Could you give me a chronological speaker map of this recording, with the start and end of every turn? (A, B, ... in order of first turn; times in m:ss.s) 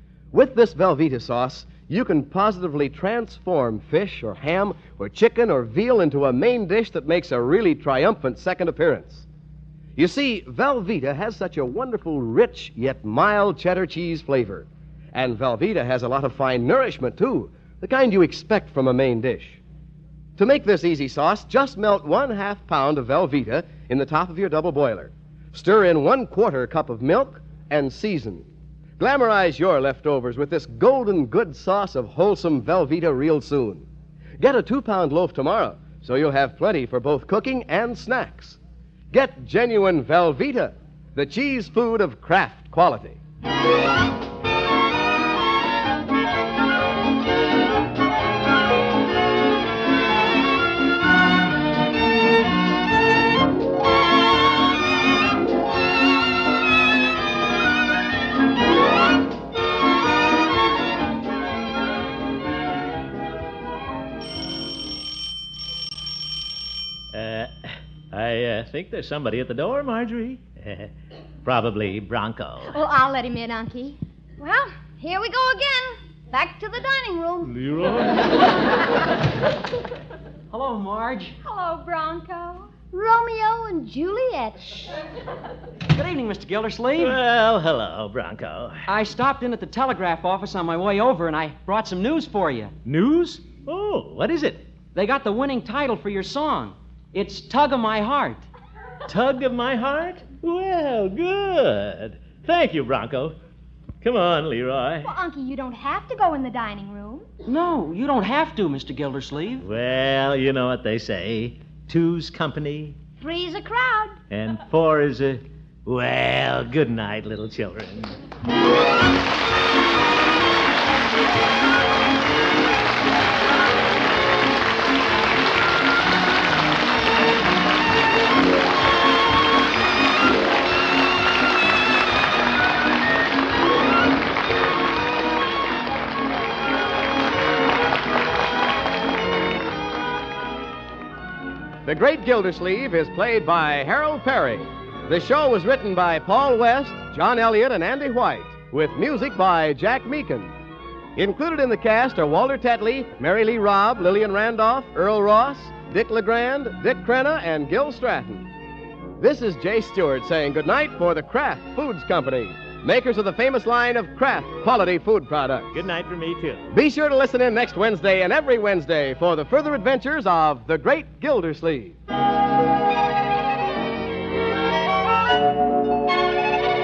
0:00.3-0:09.3 A
0:10.0-0:19.6 A
0:20.4-0:28.5 A
0:29.0-0:33.9 A
0:34.4-0:38.6 A
0:39.1-0:43.2 A
1:07.1-1:10.9 B
1:11.4-1:12.8 B
1:12.7-1:14.0 C
1:14.4-1:17.5 D
1:17.4-1:18.4 B
1:20.5-1:21.4 E
1:21.4-1:22.7 C
1:22.9-1:24.9 D
1:25.9-1:27.2 E
1:27.0-1:28.8 B
1:28.9-1:32.7 E
1:32.8-1:34.6 B
1:34.9-1:38.5 E
1:39.1-1:43.4 B
1:44.0-1:45.1 B
1:45.1-1:47.3 C
1:47.4-1:49.6 E
1:49.6-1:53.0 B
1:53.2-1:54.2 D
1:54.3-1:58.2 B
2:21.8-2:30.5 A
2:31.2-2:38.5 A
2:39.2-2:45.7 A
2:45.7-2:46.7 B
2:46.7-2:52.0 A